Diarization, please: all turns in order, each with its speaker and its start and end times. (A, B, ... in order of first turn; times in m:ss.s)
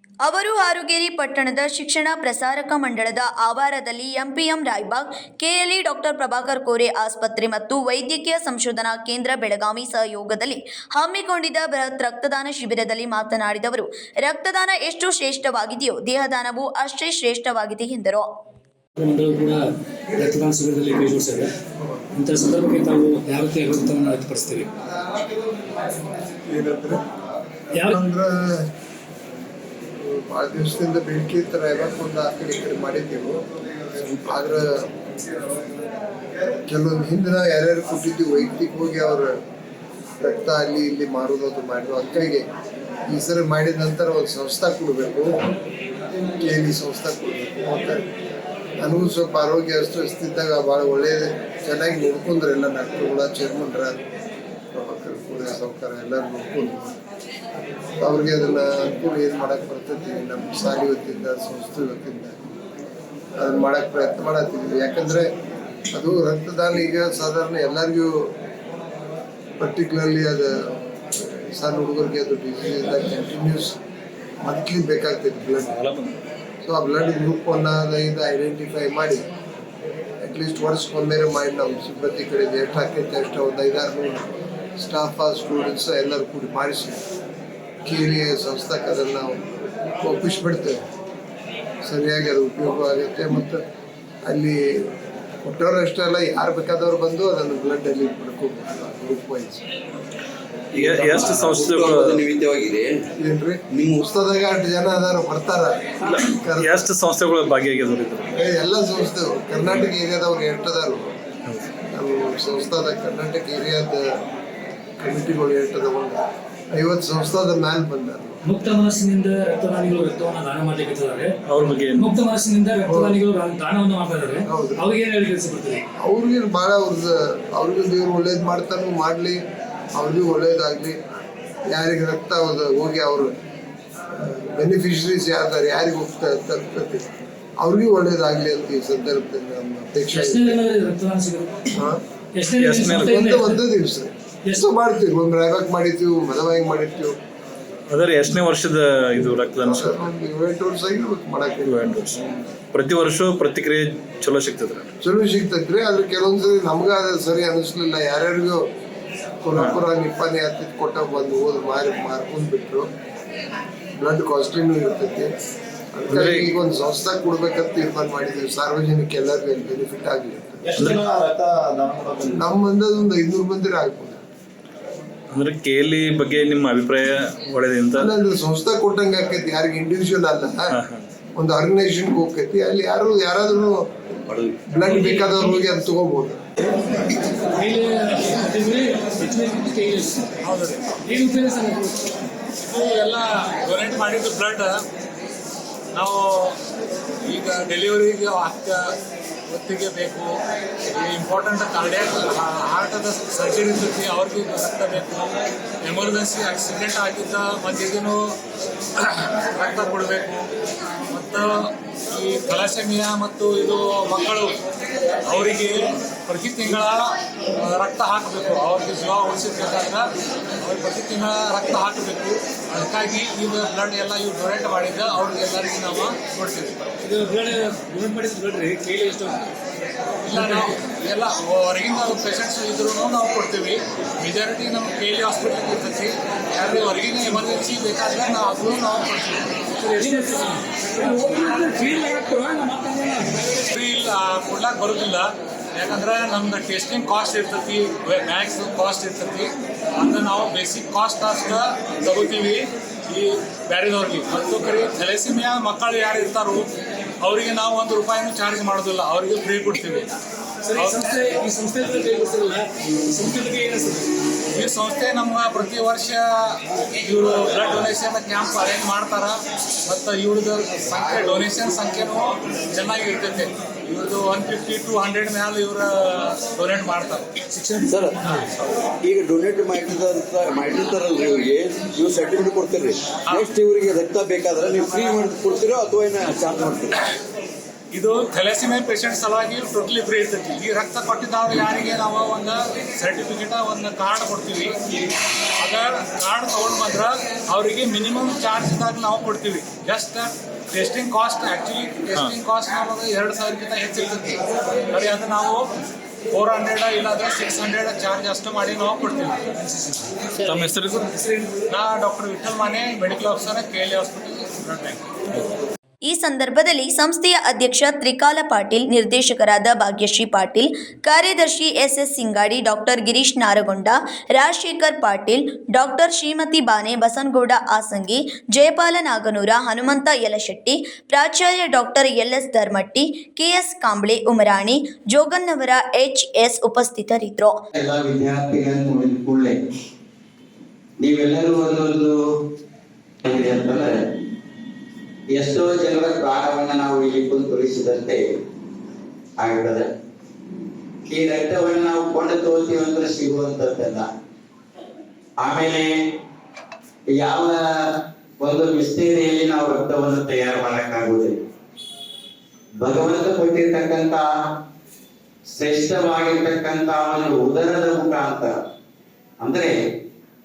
0:00.2-0:18.3 A
0:19.0-0:21.5 B
0:22.1-0:24.7 B
0:25.1-0:27.1 C
0:27.7-0:28.0 B
0:27.8-0:28.6 C
0:30.0-0:35.7 C
0:36.6-0:39.3 C
0:40.2-0:42.4 C
0:43.1-0:45.3 C
0:46.4-0:48.0 C
0:48.8-0:54.0 C
0:54.8-0:57.0 C
0:58.0-1:02.3 C
1:03.4-1:05.3 C
1:05.9-1:08.3 C
1:09.6-1:13.8 C
1:14.4-1:15.8 C
1:15.6-1:16.1 D
1:16.6-1:19.2 C
1:20.2-1:24.2 C
1:24.8-1:27.0 C
1:27.8-1:29.4 C
1:30.0-1:30.8 C
1:31.8-1:33.6 C
1:34.3-1:34.8 C
1:35.4-1:39.6 C
1:40.7-1:43.1 E
1:40.8-1:42.2 D
1:43.2-1:46.8 C
1:43.7-1:44.0 E
1:46.1-1:48.3 D
1:48.4-1:51.1 C
1:51.9-1:54.1 C
1:55.0-1:56.2 C
1:56.7-1:58.4 C
1:58.4-2:01.3 B
2:01.5-2:02.1 D
2:01.9-2:05.8 B
2:02.8-2:03.2 C
2:04.5-2:04.8 C
2:06.0-2:09.4 C
2:10.0-2:11.0 C
2:11.7-2:13.3 C
2:14.2-2:17.0 C
2:17.6-2:20.6 C
2:20.1-2:21.8 B
2:21.7-2:22.0 C
2:22.3-2:23.6 B
2:22.6-2:23.2 D
2:23.0-2:27.1 C
2:27.9-2:30.1 D
2:29.2-2:32.1 C
2:31.7-2:32.1 D
2:32.7-2:34.9 D
2:35.0-2:38.6 C
2:39.4-2:42.9 C
2:44.0-2:45.3 C
2:45.9-2:51.0 C
2:46.1-2:46.5 D
2:50.8-2:51.1 D
2:51.3-2:52.0 E
2:52.2-2:54.2 C
2:55.3-2:58.1 D
2:58.0-3:00.8 C
3:00.7-3:01.0 D
3:01.4-3:03.9 C
3:04.3-3:04.6 E
3:04.7-3:06.4 C
3:07.0-3:10.3 B
3:10.4-3:10.9 F
3:10.9-3:12.1 B
3:12.6-3:14.8 F
3:15.9-3:16.6 F
3:17.2-3:18.9 F
3:19.5-3:20.3 F
3:20.9-3:28.4 F
3:29.0-3:30.5 F
3:31.1-3:34.6 F
3:35.2-3:40.0 F
3:40.6-3:46.8 F
3:47.0-3:49.4 B
3:50.2-3:59.6 F
3:50.3-3:50.8 B
3:59.8-4:03.5 B
4:03.6-4:16.7 F
4:17.2-4:20.1 F
4:20.6-4:24.1 B
4:20.7-4:21.2 F
4:24.5-4:37.3 F
4:31.1-4:31.7 E
4:37.5-4:38.5 B
4:37.8-4:47.1 E
4:47.9-4:54.8 F
4:55.6-5:05.7 F
5:06.3-5:09.4 F
5:10.4-5:11.1 D
5:11.7-5:15.4 F
5:16.0-5:37.6 A
5:37.8-5:39.6 G
5:41.0-5:42.2 G
5:43.2-5:44.0 G
5:45.4-5:48.2 G
5:49.4-5:49.8 G
5:51.1-5:54.1 G
5:55.4-5:55.9 G
5:57.2-5:57.6 G
5:58.4-6:01.4 G
6:02.8-6:04.2 G
6:05.5-6:08.5 G
6:09.4-6:09.7 G